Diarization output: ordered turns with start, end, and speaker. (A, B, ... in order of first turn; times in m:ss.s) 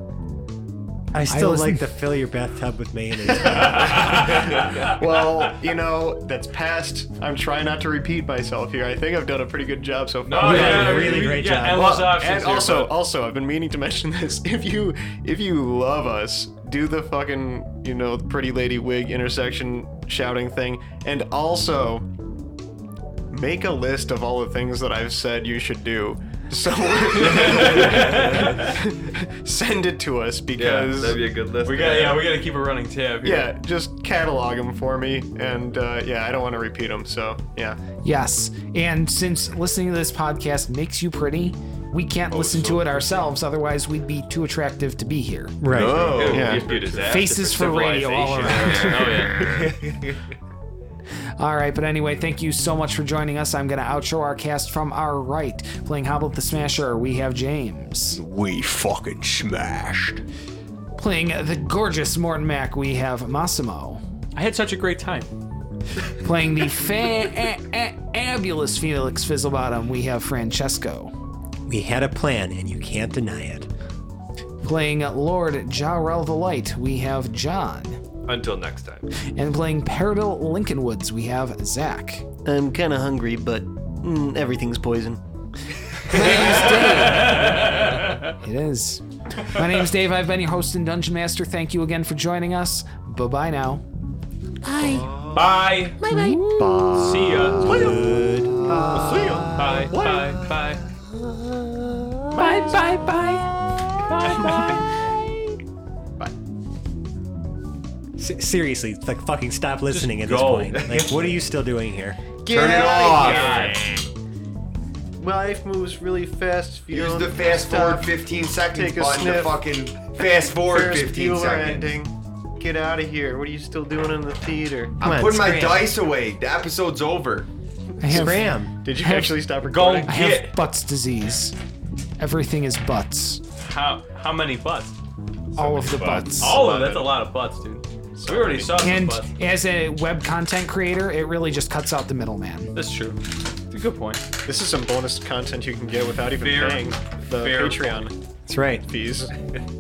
0:01.1-0:04.3 A
0:01.3-0:01.9 B
0:03.4-0:04.9 C
0:04.8-0:22.1 D
0:04.9-0:05.6 E
0:10.2-0:12.9 C
0:10.4-0:11.9 A
0:23.3-0:31.2 D
0:27.3-0:28.7 C
0:30.6-0:32.3 F
0:31.6-0:33.5 C
0:33.2-0:37.8 D
0:38.0-0:45.6 B
0:42.3-0:43.0 F
0:45.6-0:46.1 A
0:45.7-0:46.6 E
0:45.8-0:50.2 F
0:45.8-0:46.8 D
0:46.0-0:49.4 C
0:47.0-0:49.3 B
0:48.7-0:49.8 E
0:51.4-0:58.2 B
0:58.1-1:00.2 E
1:01.0-1:04.0 B
1:04.3-1:05.3 C
1:06.1-1:11.1 B
1:11.6-1:13.7 A
1:14.6-1:18.0 B
1:18.2-1:19.1 F
1:19.2-1:22.2 B
1:22.4-1:25.2 D
1:26.0-1:33.8 B
1:26.1-1:26.7 D
1:26.9-1:28.3 C
1:34.6-1:35.0 A
1:34.9-1:35.3 E
1:35.3-1:36.0 C
1:36.0-1:36.4 E
1:36.1-1:39.9 A
1:36.1-1:36.7 B
1:36.9-1:38.0 C
1:37.7-1:37.9 D
1:38.9-1:40.8 C
1:38.9-1:40.3 D
1:42.3-1:43.5 B
1:44.1-1:44.9 C
1:44.3-1:44.6 B
1:44.5-1:44.7 D
1:48.2-1:52.2 A
1:49.9-1:51.0 C
1:50.8-1:51.1 F
1:52.4-1:54.0 E
1:52.6-1:53.8 C
1:55.2-1:58.1 D
1:56.9-2:01.9 E
1:58.7-1:59.6 D
2:00.2-2:05.0 D
2:05.0-2:07.5 E
2:05.0-2:05.8 A
2:08.0-2:09.4 B
2:08.1-2:08.7 A
2:08.1-2:10.2 D
2:09.6-2:10.5 C
2:10.0-2:11.6 B
2:12.2-2:13.4 B
2:13.6-2:15.0 C
2:15.6-2:16.6 B
2:15.6-2:17.1 F
2:16.4-2:19.3 C
2:18.2-2:18.8 D
2:18.8-2:22.7 B
2:22.7-2:24.2 C
2:24.4-2:28.2 D
2:26.4-2:28.0 C
2:28.5-2:28.9 A
2:28.8-2:29.3 D